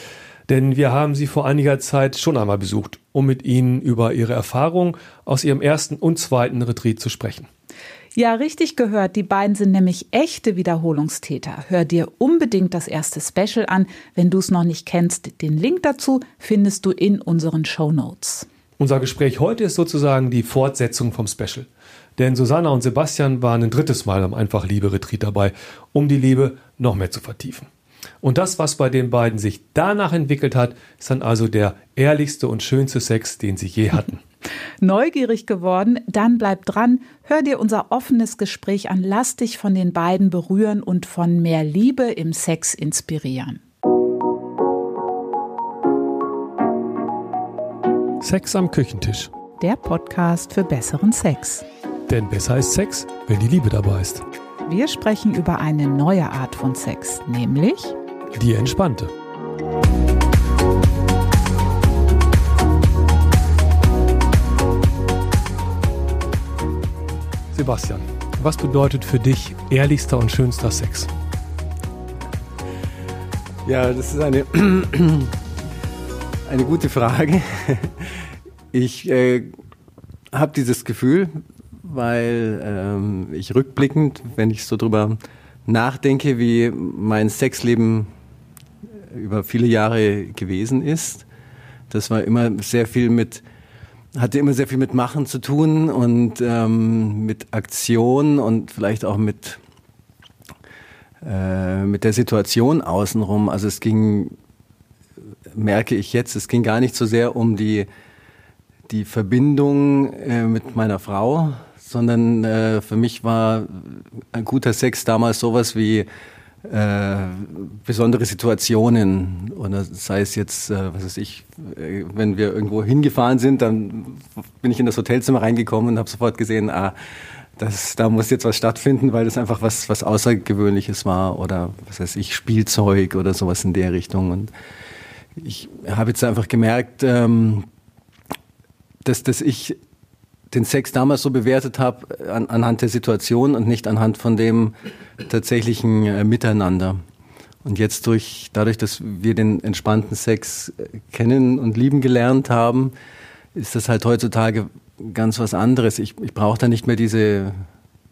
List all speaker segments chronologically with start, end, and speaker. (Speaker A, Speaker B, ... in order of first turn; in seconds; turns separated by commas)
Speaker A: 0.5-7.5, Speaker B: 8.1-18.5, Speaker A: 18.8-27.7, Speaker A: 28.2-34.2, Speaker B: 34.8-43.6, Speaker A: 48.2-49.3, Speaker B: 49.6-51.6, Speaker A: 52.1-54.2, Speaker B: 54.6-58.0, Speaker A: 58.3-59.1, Speaker A: 67.5-71.1, Speaker C: 73.6-75.3, Speaker C: 76.5-79.5, Speaker C: 80.3-88.1, Speaker C: 89.0-91.2, Speaker C: 91.9-93.4, Speaker C: 94.1-99.6, Speaker C: 101.2-104.3, Speaker C: 105.5-107.9, Speaker C: 108.9-116.1, Speaker C: 116.6-126.9, Speaker C: 127.6-134.5, Speaker C: 135.3-137.7, Speaker C: 139.0-139.8, Speaker C: 140.5-147.0, Speaker C: 147.6-152.9, Speaker C: 153.5-157.6